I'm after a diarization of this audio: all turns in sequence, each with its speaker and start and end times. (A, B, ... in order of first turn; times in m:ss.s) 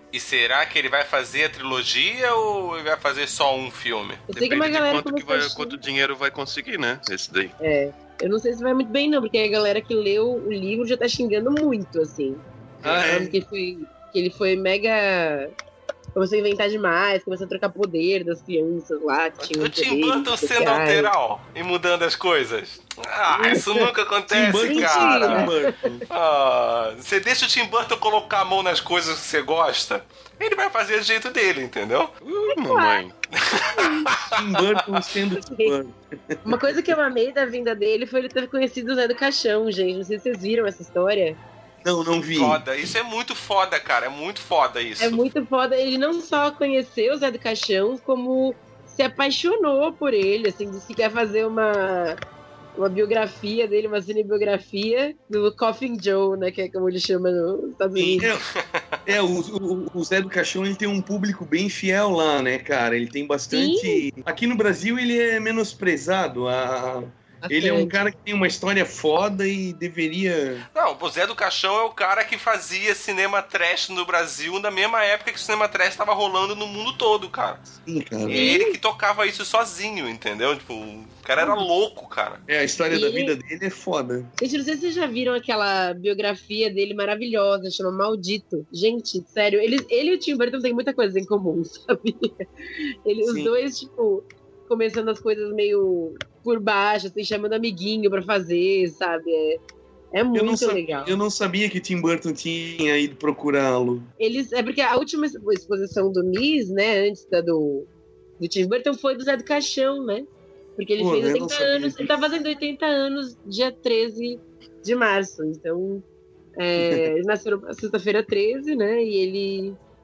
0:00.1-0:04.3 A
0:04.3-0:05.8 B
0:04.3-0:07.6 C
0:07.6-0:15.5 B
0:12.8-0:13.2 C
0:12.8-0:13.3 D
0:16.2-0:21.1 B
0:19.4-0:25.5 A
0:23.3-0:23.9 B
0:24.3-0:26.0 D
0:24.6-0:25.5 B
0:26.1-0:32.1 A
0:32.2-0:33.2 C
0:32.5-0:33.0 B
0:33.4-0:34.7 A
0:33.7-0:34.1 B
0:34.2-0:36.0 D
0:35.4-0:35.7 B
0:36.4-0:41.4 B
0:36.5-0:36.8 D
0:41.8-0:42.6 D
0:42.4-0:45.2 A
0:45.0-0:52.2 B
0:52.8-0:58.3 B
0:58.0-0:58.5 D
0:58.6-0:58.8 A
0:59.1-1:10.7 D
1:03.5-1:04.1 B
1:07.4-1:08.0 B
1:10.8-1:17.7 A
1:17.9-1:18.4 D
1:18.3-1:18.8 B
1:18.3-1:22.4 A
1:21.4-1:21.7 B
1:22.5-1:24.3 D
1:22.9-1:23.4 B
1:24.4-1:32.3 B
1:33.1-1:39.6 B
1:33.2-1:33.5 D
1:40.1-1:41.2 B
1:40.3-1:44.1 D
1:44.2-1:56.0 B
1:51.0-1:52.2 D
1:56.6-1:59.8 B
1:56.8-1:57.1 D